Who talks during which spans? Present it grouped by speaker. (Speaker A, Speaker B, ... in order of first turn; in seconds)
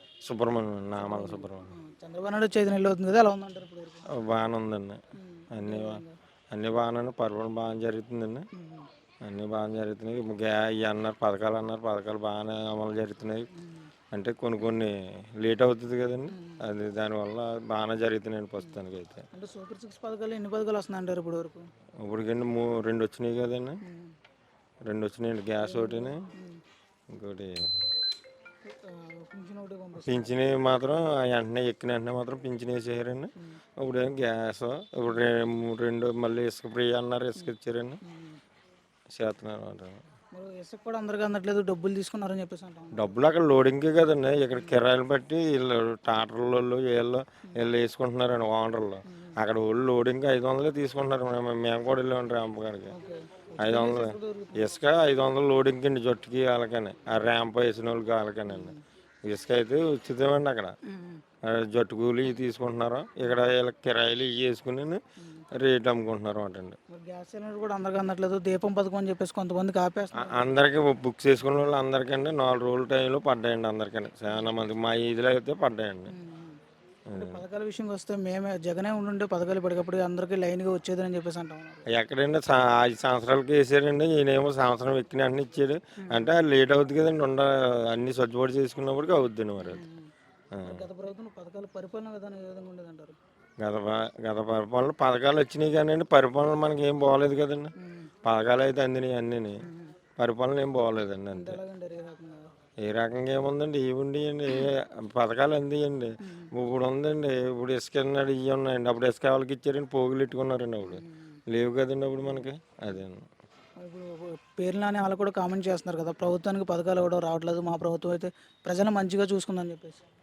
Speaker A: 0.2-1.7, 4.1-5.0, 5.5-8.4, 9.2-13.5, 14.1-19.2, 22.0-23.8, 24.8-26.2, 27.1-27.6, 30.0-38.0, 39.1-40.0, 42.9-52.9, 53.6-60.8, 61.4-65.0, 65.5-66.8, 70.1-76.1, 77.1-77.4, 81.9-89.8, 90.5-90.8, 93.6-99.6, 100.2-101.6, 102.8-113.2
Speaker B: 0.9-4.0, 5.2-6.2, 8.5-8.9, 13.6-13.8, 16.3-16.6, 19.3-21.7, 23.9-24.1, 25.6-26.6, 28.6-30.5, 38.0-38.4, 40.3-43.1, 49.1-49.4, 52.9-54.8, 58.5-58.8, 60.9-61.2, 65.2-65.5, 66.9-70.5, 76.1-76.6, 77.1-81.9, 86.0-86.3, 89.6-90.1, 90.6-93.2, 97.8-98.1, 99.6-99.9, 101.3-102.5, 106.2-106.5, 110.8-111.4, 112.2-113.0, 113.8-120.0